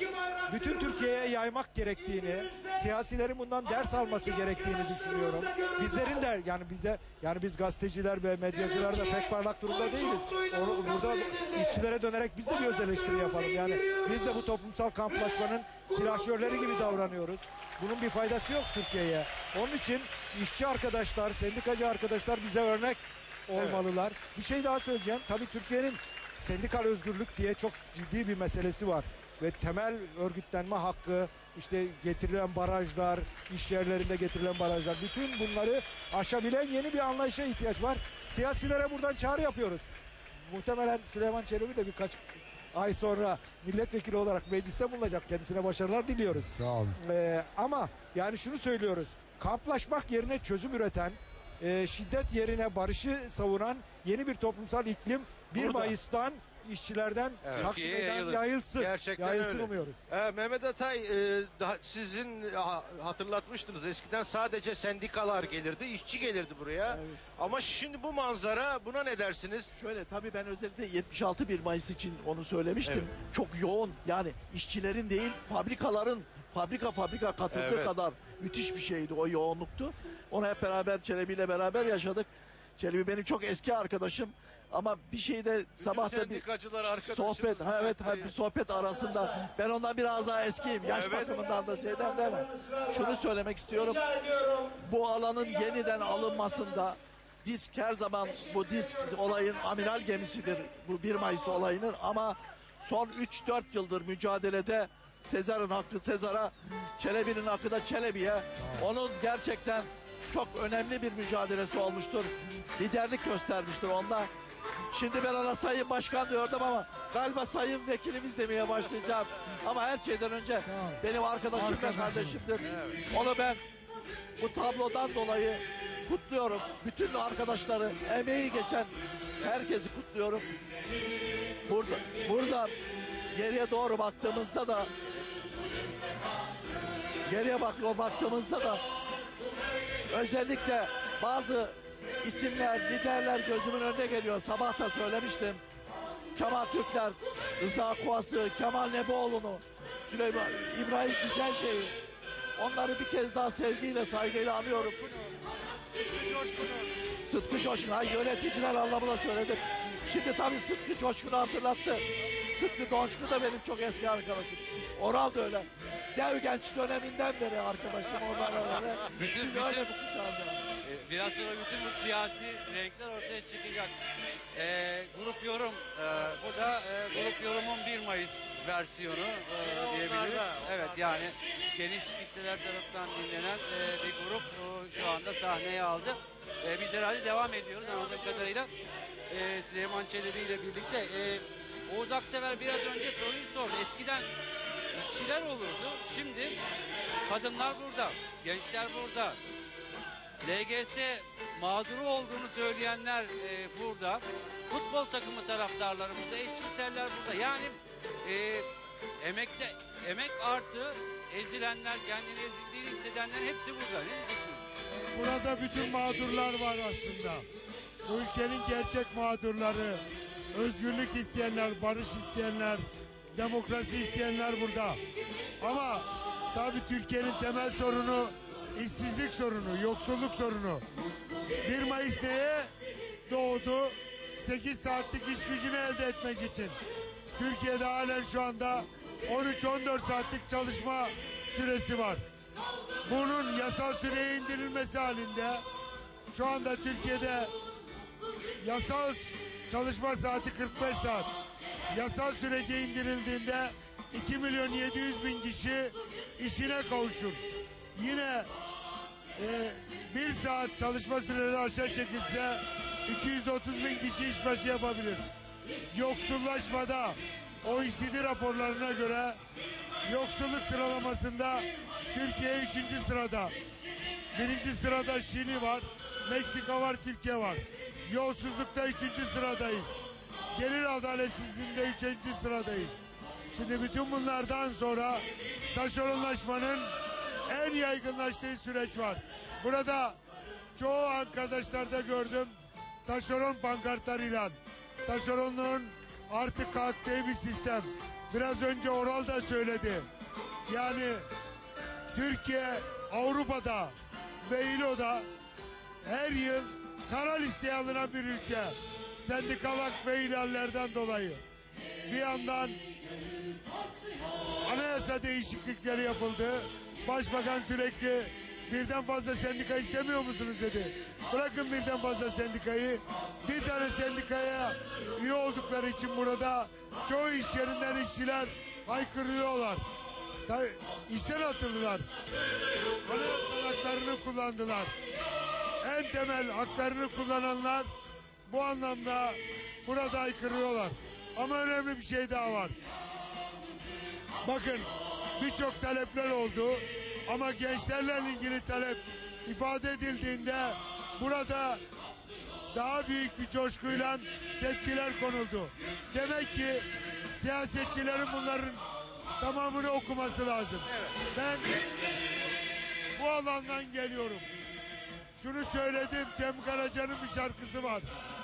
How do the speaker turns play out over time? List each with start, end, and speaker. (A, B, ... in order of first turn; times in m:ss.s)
0:00.5-0:39.9 A
0:23.6-0:23.8 B
0:40.4-1:00.0 A
0:46.4-0:47.0 C
0:55.5-0:55.9 D
0:57.4-0:57.7 B
0:57.5-0:58.4 E
0:58.8-1:09.7 B
1:06.8-1:07.2 D
1:09.7-1:26.4 D
1:17.5-1:17.9 B
1:25.8-1:28.3 B
1:27.0-1:34.1 D
1:30.8-1:31.4 B
1:34.7-1:54.3 D
1:54.9-2:03.6 D
2:00.6-2:01.0 C
2:01.5-2:02.4 C
2:02.7-2:03.0 B
2:04.4-2:10.5 D
2:11.6-2:12.7 D
2:13.3-2:14.9 D
2:17.2-2:18.8 D
2:20.1-2:25.6 D
2:26.3-2:32.0 D
2:32.6-2:35.0 D
2:35.0-2:35.3 A
2:36.0-2:36.9 A
2:37.2-2:50.6 D
2:49.1-2:49.9 E
2:50.8-2:53.9 E
2:54.5-3:08.7 E
2:59.8-3:00.9 B
3:09.3-3:14.3 E
3:14.9-3:16.6 E
3:17.2-3:19.4 E
3:20.4-3:28.7 E
3:29.2-3:34.6 E
3:34.9-3:37.4 C
3:38.0-3:45.0 C
3:45.6-3:50.8 C
3:51.6-3:52.7 C
3:53.3-3:56.8 C
3:57.4-4:02.2 C
4:03.0-4:05.6 C
4:06.3-4:07.5 C
4:08.6-4:11.3 C
4:11.9-4:17.4 C
4:17.9-4:18.5 C
4:19.3-4:25.2 C
4:25.9-4:29.4 C
4:30.0-4:33.5 C
4:34.3-4:39.9 C
4:40.5-4:43.0 C
4:43.5-4:46.9 C
4:47.5-4:50.2 C
4:50.8-5:00.1 C
5:00.7-5:01.2 C
5:02.1-5:03.9 C
5:04.4-5:05.3 C
5:06.0-5:11.4 C
5:12.0-5:12.8 C
5:14.6-5:29.8 C
5:30.4-5:32.1 C
5:33.0-5:34.9 C
5:35.8-5:37.9 C
5:38.5-5:42.8 C
5:44.4-5:51.8 C
5:52.7-5:58.8 C
5:59.4-6:01.7 C
6:03.1-6:04.5 C
6:05.4-6:08.1 C